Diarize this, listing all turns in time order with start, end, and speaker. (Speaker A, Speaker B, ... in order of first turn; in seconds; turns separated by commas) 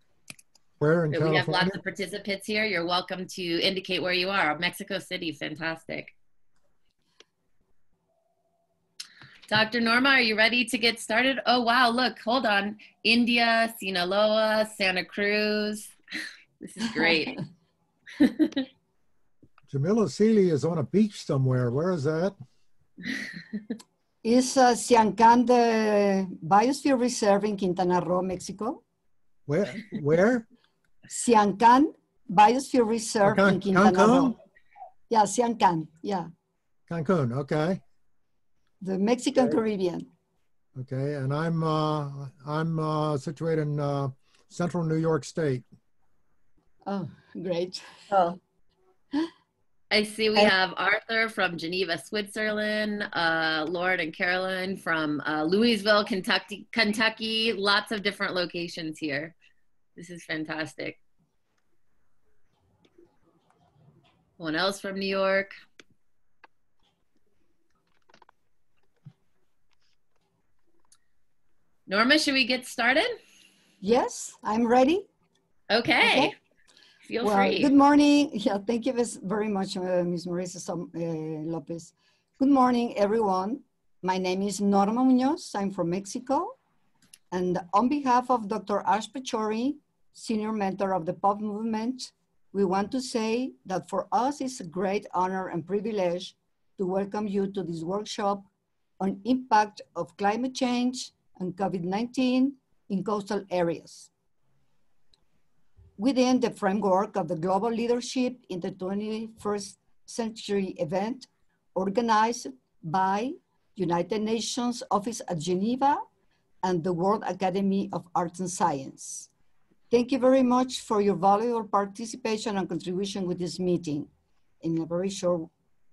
Speaker A: 0.8-1.8, Speaker B: 1.1-6.1, Speaker B: 9.5-15.9, Speaker B: 16.6-17.4, Speaker B: 18.2-18.7, Speaker A: 19.7-22.4, Speaker C: 24.2-28.8, Speaker A: 29.5-30.5, Speaker C: 31.1-34.4, Speaker A: 33.2-34.3, Speaker C: 35.1-36.3, Speaker A: 36.9-37.8, Speaker C: 38.8-40.1, Speaker A: 40.8-45.7, Speaker C: 46.9-48.4, Speaker B: 49.9-59.3, Speaker B: 60.0-61.0, Speaker B: 64.4-65.5, Speaker B: 71.9-73.2, Speaker C: 73.8-75.1, Speaker B: 75.7-76.3, Speaker C: 76.0-76.3, Speaker B: 77.1-77.7, Speaker C: 77.2-86.6, Speaker C: 87.3-98.5, Speaker C: 99.0-104.1, Speaker C: 106.0-116.0, Speaker C: 116.6-119.3, Speaker C: 119.9-124.1, Speaker C: 124.6-125.5